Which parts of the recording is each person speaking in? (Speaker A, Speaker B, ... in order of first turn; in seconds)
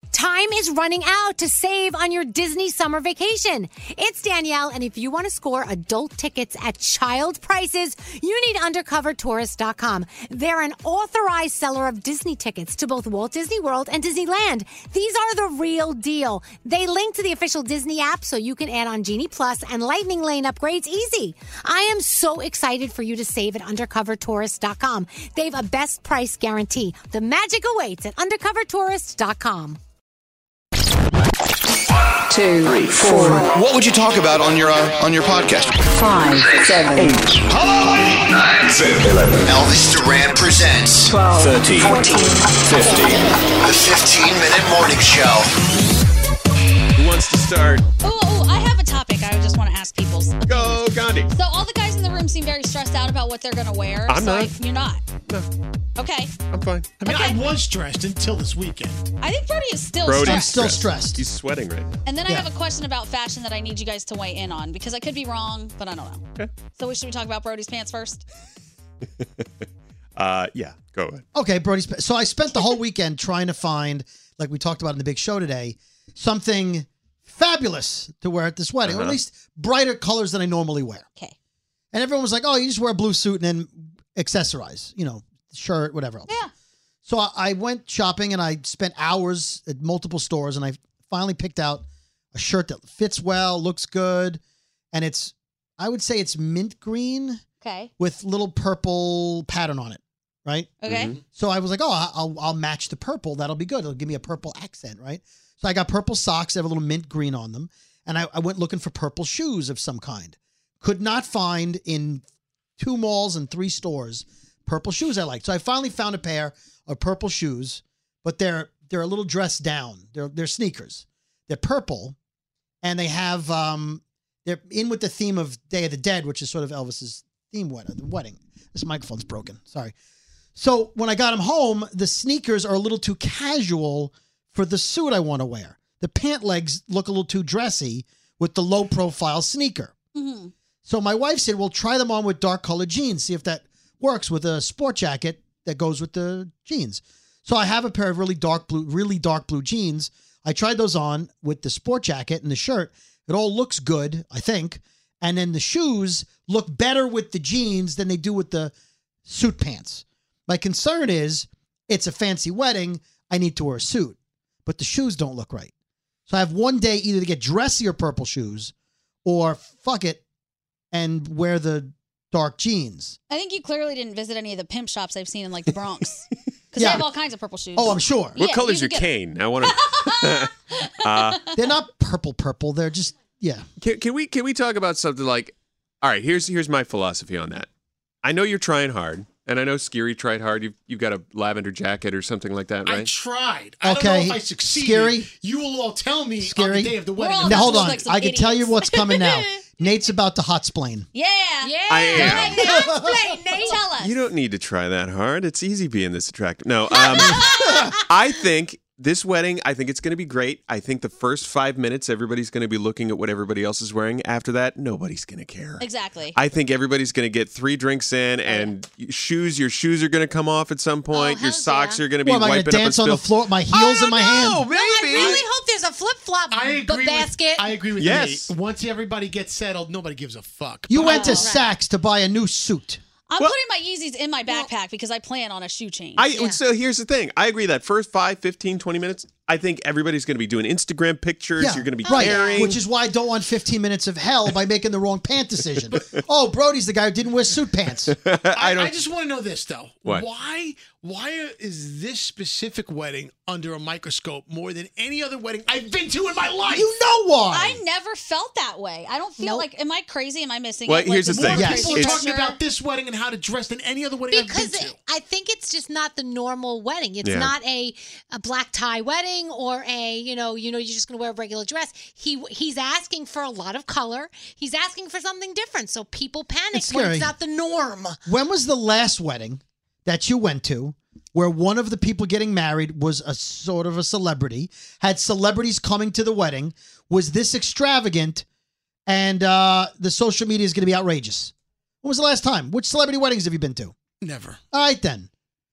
Speaker A: 0.1-29.8, 199.1-199.4, 201.6-203.9, 206.9-207.9, 221.1-222.0, 223.7-227.8, 231.0-231.7, 242.1-242.7, 259.4-259.7, 261.7-262.2, 264.3-278.2
Speaker B: 32.3-33.5, 36.0-37.3, 41.1-42.4
Speaker C: 32.7-35.7, 36.4-36.7, 38.2-42.1, 42.6-45.5
Speaker D: 47.0-47.9, 50.5-51.3, 54.1-54.5, 56.5-56.9, 60.0-62.0, 69.2-69.5, 70.2-71.2, 78.9-79.2, 100.9-101.2, 178.4-181.4, 183.8-187.7, 188.2-193.1, 201.9-202.6, 204.0-207.5, 208.1-223.3, 224.5-225.4, 228.0-228.5, 236.2-242.8, 248.1-248.9, 260.9-262.2, 267.2-267.5
Speaker E: 48.0-55.0, 56.0-56.3, 57.1-57.5, 59.2-60.7, 62.0-68.2, 97.6-97.9, 100.8-101.1, 140.2-140.5, 173.3-181.5, 197.2-198.9, 201.1-202.9, 203.6-204.2, 215.8-216.4, 218.5-218.7, 233.3-236.5, 257.5-262.6
Speaker F: 57.0-59.1, 192.8-198.0, 226.5-231.5, 248.6-256.9, 261.3-265.0, 294.2-294.6
Speaker G: 60.2-61.2, 71.3-81.1, 81.9-86.4, 87.1-94.4, 94.9-97.4, 98.0-112.2, 112.8-122.2, 122.8-129.9, 130.6-139.9, 140.8-158.7, 159.3-165.7, 166.3-168.7, 169.2-170.2, 170.9-173.2, 176.8-177.1, 177.7-178.4, 181.6-183.7, 193.8-195.3, 196.4-201.1, 202.6-203.2, 222.2-224.6, 230.9-233.0, 241.6-248.1, 256.7-257.8, 261.4-261.9, 276.7-277.3, 278.3-288.4, 289.1-293.9, 294.7-295.3